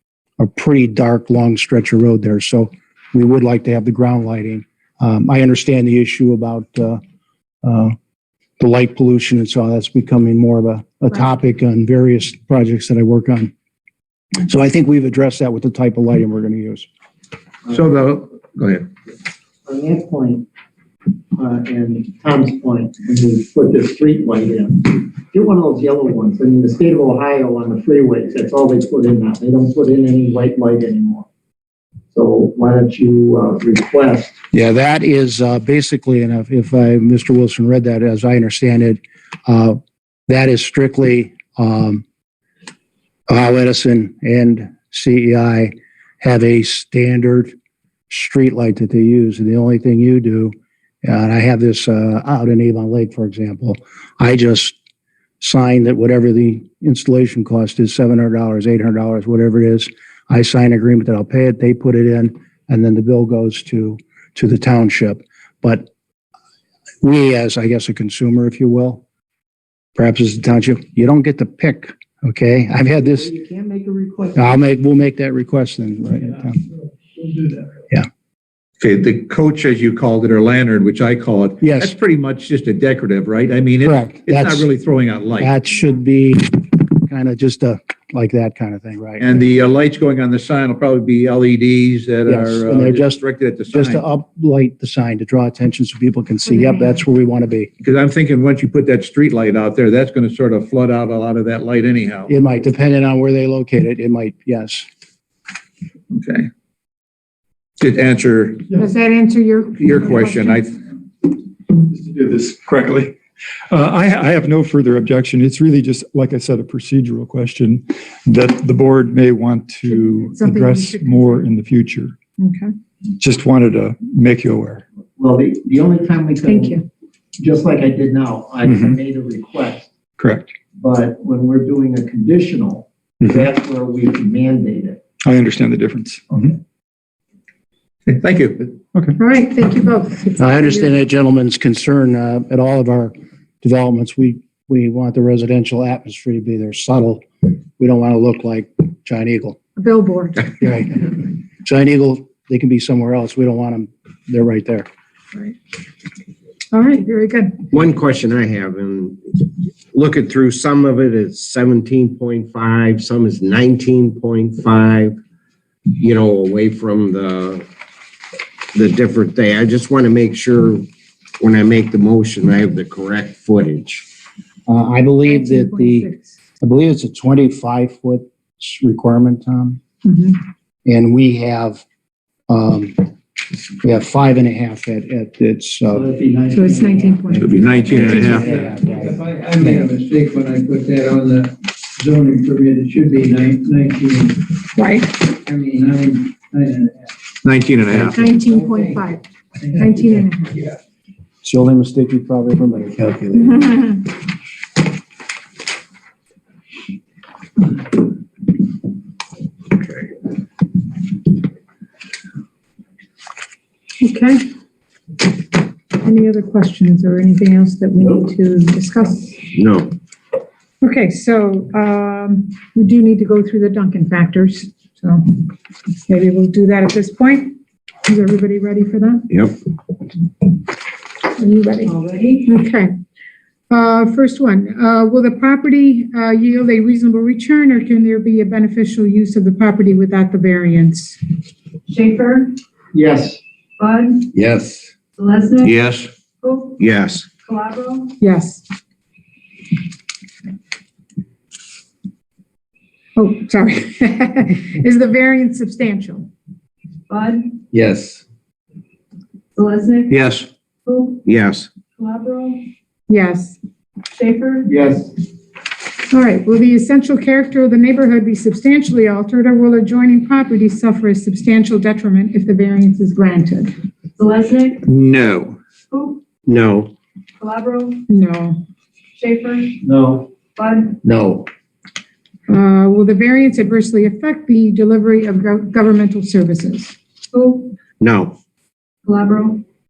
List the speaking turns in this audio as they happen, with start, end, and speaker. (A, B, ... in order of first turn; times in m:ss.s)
0:00.4-0:07.0 A
0:07.6-0:07.9 A
0:08.6-0:13.5 A
0:14.4-0:16.9 A
0:17.7-0:18.9 B
0:19.6-0:20.4 C
0:21.4-0:31.3 C
0:32.1-0:34.3 C
0:34.5-0:42.0 A
0:43.3-0:47.5 A
0:48.1-0:54.8 A
0:55.4-1:05.9 A
1:07.0-1:09.0 A
1:10.0-1:13.3 A
1:13.3-1:14.4 C
1:14.3-1:16.6 A
1:18.8-1:25.5 B
1:21.6-1:22.0 A
1:23.8-1:24.7 A
1:25.4-1:29.3 A
1:29.2-1:34.0 B
1:32.2-1:37.7 A
1:36.4-1:37.0 D
1:37.8-1:42.3 B
1:42.3-1:44.8 A
1:46.1-1:46.5 B
1:47.8-1:48.6 B
1:48.7-1:50.8 D
1:49.8-1:50.8 B
1:51.8-1:53.2 E
1:53.7-2:02.2 E
1:59.8-2:01.5 D
2:02.4-2:02.7 D
2:03.2-2:04.8 E
2:05.2-2:06.8 C
2:06.4-2:06.8 D
2:07.4-2:09.9 C
2:08.6-2:08.9 E
2:10.2-2:10.6 E
2:10.8-2:15.0 C
2:15.2-2:16.6 E
2:18.0-2:18.8 B
2:19.2-2:20.9 D
2:20.4-2:29.6 A
2:29.8-2:30.5 D
2:30.6-2:34.9 A
2:36.7-2:37.6 D
2:37.7-2:45.2 F
2:46.0-2:47.6 F
2:48.7-2:50.9 F
2:51.4-2:54.0 F
2:54.7-2:59.8 A
2:55.2-2:56.3 D
3:00.0-3:00.4 D
3:00.8-3:01.8 A
3:02.5-3:03.0 A
3:03.8-3:06.1 A
3:06.0-3:07.9 C
3:06.5-3:08.4 D
3:06.6-3:07.3 G
3:07.3-3:08.5 B
3:07.4-3:09.8 A
3:07.8-3:14.5 G
3:14.8-3:15.2 D
3:15.3-3:17.1 G
3:17.4-3:18.2 B
3:17.9-3:20.8 G
3:18.0-3:19.2 D
3:19.7-3:20.6 D
3:21.4-3:23.0 A
3:22.8-3:23.5 G
3:34.0-3:34.4 D
3:35.9-3:39.4 D
3:39.5-3:39.9 F
3:40.8-3:49.2 D
3:49.3-3:49.6 F
3:51.3-3:51.9 D
3:51.8-3:52.5 H
3:52.4-3:52.9 D
3:53.7-4:01.2 D
4:01.9-4:02.5 H
4:02.9-4:03.4 C
4:03.8-4:04.3 H
4:04.5-4:04.8 G
4:05.2-4:05.8 H
4:05.7-4:06.1 B
4:06.4-4:06.8 H
4:06.8-4:07.3 F
4:07.4-4:08.1 H
4:08.2-4:08.6 D
4:13.2-4:16.3 D
4:17.1-4:17.4 H
4:17.7-4:18.2 G
4:19.6-4:20.2 H
4:20.1-4:20.5 B
4:20.8-4:21.2 H
4:21.2-4:21.7 F
4:22.0-4:22.6 H
4:23.1-4:23.6 D
4:24.1-4:24.7 H
4:24.6-4:25.1 C
4:26.1-4:33.7 D
4:34.2-4:34.8 H
4:34.8-4:35.6 B
4:35.9-4:36.2 H
4:36.4-4:36.9 F
4:37.4-4:38.0 H
4:38.1-4:38.6 D
4:39.2-4:39.8 H
4:39.8-4:40.2 C
4:40.6-4:41.0 H
4:41.0-4:41.4 F
4:42.5-4:47.0 D
4:47.3-4:47.7 H
4:48.0-4:48.4 F
4:49.0-4:49.6 H